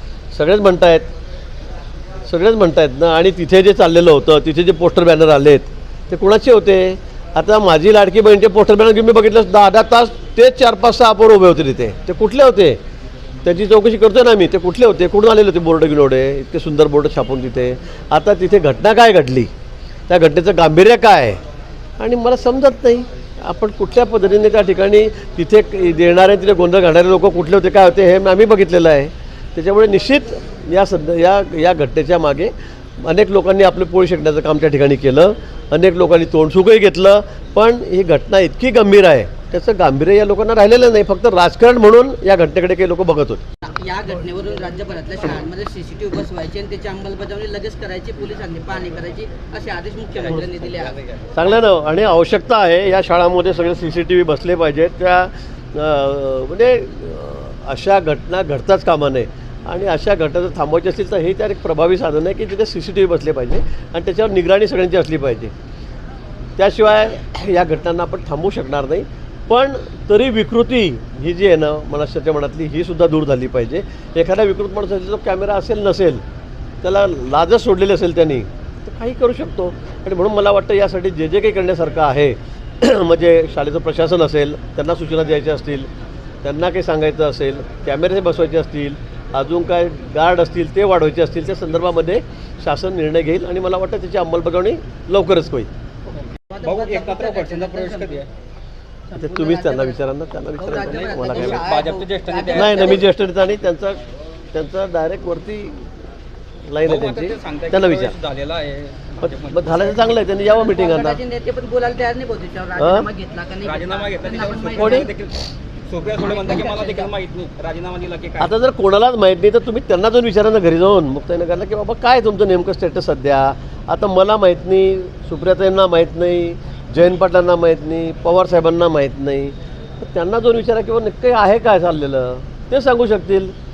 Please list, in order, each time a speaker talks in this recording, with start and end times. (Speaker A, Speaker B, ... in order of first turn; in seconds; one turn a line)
Speaker A: 0.3-1.1
Speaker A: 2.2-12.8
Speaker A: 13.4-19.5
Speaker A: 20.1-21.4
Speaker A: 22.0-43.4
Speaker B: 43.6-51.0
Speaker C: 50.7-51.3
Speaker A: 51.3-65.5
Speaker A: 66.6-76.2
Speaker A: 76.8-85.9
Speaker A: 86.4-95.7
Speaker B: 96.5-98.2
Speaker C: 96.6-98.3
Speaker B: 99.1-100.0
Speaker A: 99.2-101.6
Speaker B: 100.5-103.1
Speaker C: 100.9-102.9
Speaker A: 102.5-104.0
Speaker A: 104.5-105.9
Speaker A: 106.6-108.2
Speaker C: 106.8-110.1
Speaker A: 109.2-111.2
Speaker B: 110.4-115.1
Speaker A: 112.8-113.1
Speaker C: 113.6-118.5
Speaker A: 114.8-115.1
Speaker B: 116.1-117.1
Speaker A: 118.4-133.5